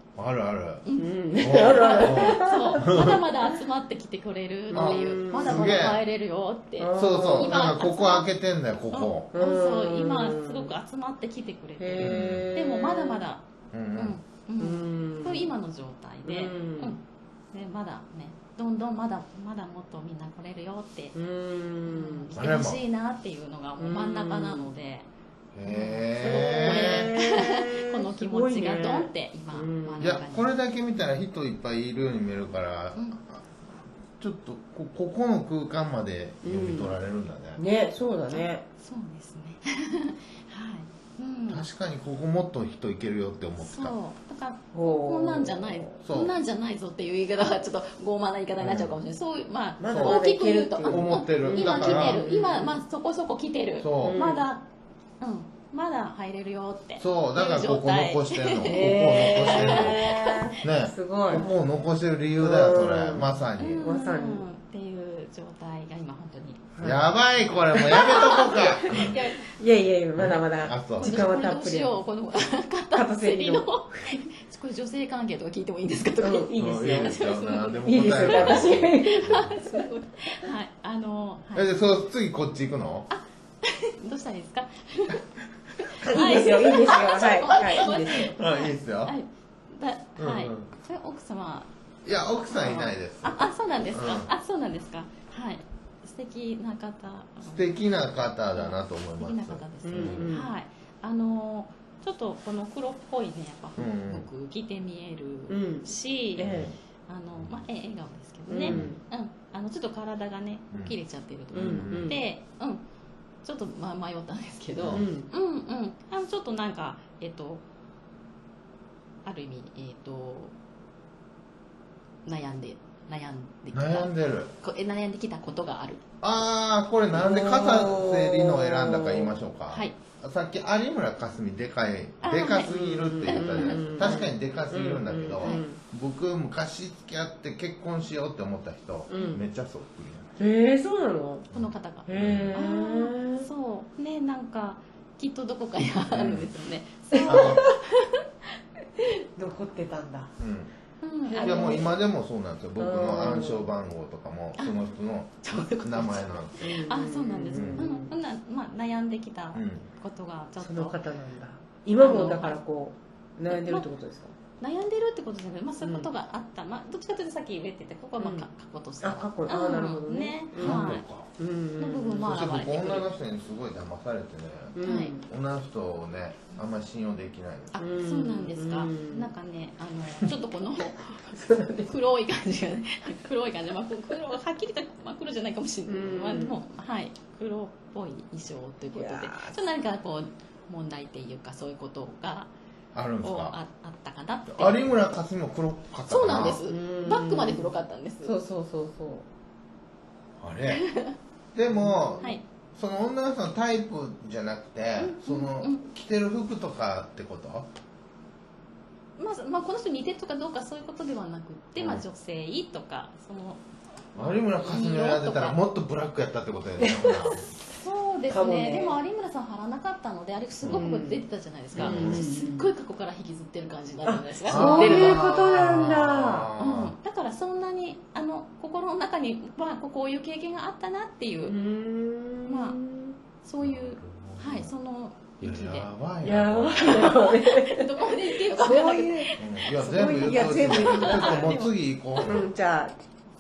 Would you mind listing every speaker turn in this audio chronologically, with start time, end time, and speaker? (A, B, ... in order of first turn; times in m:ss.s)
0:00.2-0:00.9 A
0:00.8-0:08.3 B
0:01.0-0:03.1 C
0:01.4-0:03.2 A
0:04.7-0:05.8 C
0:04.7-0:06.0 A
0:06.8-0:07.8 C
0:07.0-0:09.3 A
0:08.9-0:21.2 B
0:09.3-0:10.8 C
0:11.8-0:13.3 C
0:12.0-0:12.6 A
0:13.7-0:14.2 A
0:14.6-0:15.6 C
0:16.2-0:17.0 C
0:21.1-0:22.4 C
0:21.9-0:25.1 B
0:22.4-0:22.8 A
0:23.8-0:24.7 C
0:25.5-0:27.1 A
0:25.6-0:30.5 B
0:26.2-0:30.0 C
0:30.0-0:33.4 A
0:32.9-0:33.2 B
0:34.2-0:37.6 A
0:36.4-0:37.0 C
0:37.6-0:38.6 C
0:38.3-0:41.7 B
0:41.5-0:44.0 A
0:43.6-0:54.7 B
0:44.7-0:45.9 C
0:46.0-0:46.4 A
0:48.6-0:49.0 A
0:49.8-0:52.8 C
0:49.9-0:50.3 A
0:50.8-0:52.3 A
0:53.8-0:54.2 A
0:54.0-0:54.5 C
0:55.2-1:00.6 B
0:57.0-1:03.8 A
0:58.6-1:01.5 C
1:02.4-1:04.5 C
1:03.6-1:09.4 B
1:06.8-1:07.1 C
1:06.8-1:09.2 A
1:08.8-1:12.0 C
1:10.2-1:11.4 A
1:11.0-1:21.7 B
1:12.9-1:13.7 C
1:16.2-1:17.2 C
1:16.6-1:19.6 A
1:17.8-1:19.9 C
1:21.5-1:23.1 A
1:23.1-1:25.2 B
1:25.8-1:31.7 B
1:26.0-1:28.3 C
1:27.5-1:29.2 A
1:30.2-1:30.7 A
1:32.0-1:34.3 A
1:32.4-1:37.9 B
1:37.4-1:40.3 A
1:38.5-1:52.8 B
1:39.8-1:40.5 C
1:43.8-1:44.3 A
1:45.5-1:46.7 C
1:46.4-1:46.8 A
1:48.5-1:49.0 C
1:48.7-1:48.9 A
1:50.7-1:51.0 A
1:51.5-1:52.2 A
1:51.5-1:52.2 C
1:53.4-1:57.6 B
1:54.8-1:55.1 A
1:54.9-1:55.3 C
1:59.2-2:00.6 B
2:02.2-2:06.0 B
2:03.7-2:04.5 A
2:06.2-2:20.4 A
2:07.2-2:09.4 C
2:09.7-2:10.0 B
2:12.2-2:12.7 B
2:12.7-2:15.8 C
2:13.2-2:14.2 B
2:15.4-2:15.6 B
2:19.1-2:19.4 C
2:20.4-2:21.5 C
2:21.5-2:22.6 A
2:21.5-2:28.2 B
2:22.1-2:23.5 C
2:26.1-2:26.5 A
2:27.1-2:27.8 C
2:27.3-2:27.7 A
2:29.4-2:30.3 C
2:30.4-2:30.7 A
2:31.0-2:32.0 B
2:31.3-2:32.0 C
2:31.4-2:36.7 A
2:32.8-2:33.7 C
2:34.6-2:34.8 B
2:35.4-2:41.0 B
2:36.6-2:38.2 C
2:37.5-2:37.9 A
2:39.5-2:39.9 A
2:40.6-2:44.3 C
2:42.0-2:42.6 B
2:43.5-2:43.9 B
2:44.6-2:51.1 B
2:45.8-2:46.1 C
2:48.2-2:48.5 C
2:49.0-2:52.2 C
2:50.6-2:51.3 A
2:51.8-2:53.1 B
2:52.2-2:57.8 A
2:54.8-2:55.3 C
2:54.8-2:55.2 B
2:57.7-3:12.5 B
2:57.8-2:59.3 C
3:01.3-3:01.9 C
3:05.9-3:06.6 C
3:08.9-3:09.7 C
3:12.9-3:13.6 A
3:13.2-3:14.9 B
3:14.5-3:16.6 A
3:16.1-3:18.3 B
3:16.6-3:19.3 C
3:20.4-3:20.9 A
3:20.7-3:21.2 B
3:21.5-3:27.7 A
3:21.7-3:22.2 C
3:25.0-3:25.9 B
3:29.2-3:33.6 B
3:31.8-3:32.0 A
3:34.2-3:35.6 B
3:34.2-3:37.5 A
3:36.8-3:37.5 C
3:37.8-3:45.2 B
3:38.3-3:39.0 C
3:40.7-3:42.7 C
3:41.8-3:42.2 A
3:44.0-3:46.5 C
3:44.5-3:47.0 A
3:46.6-3:51.6 B
3:51.4-3:53.2 C
3:52.5-3:52.8 B
3:53.4-3:55.9 B
3:53.6-3:54.7 A
3:55.4-3:57.1 A
3:56.2-4:01.6 C
3:56.8-4:01.8 B
3:59.4-4:02.5 A
4:02.2-4:03.0 C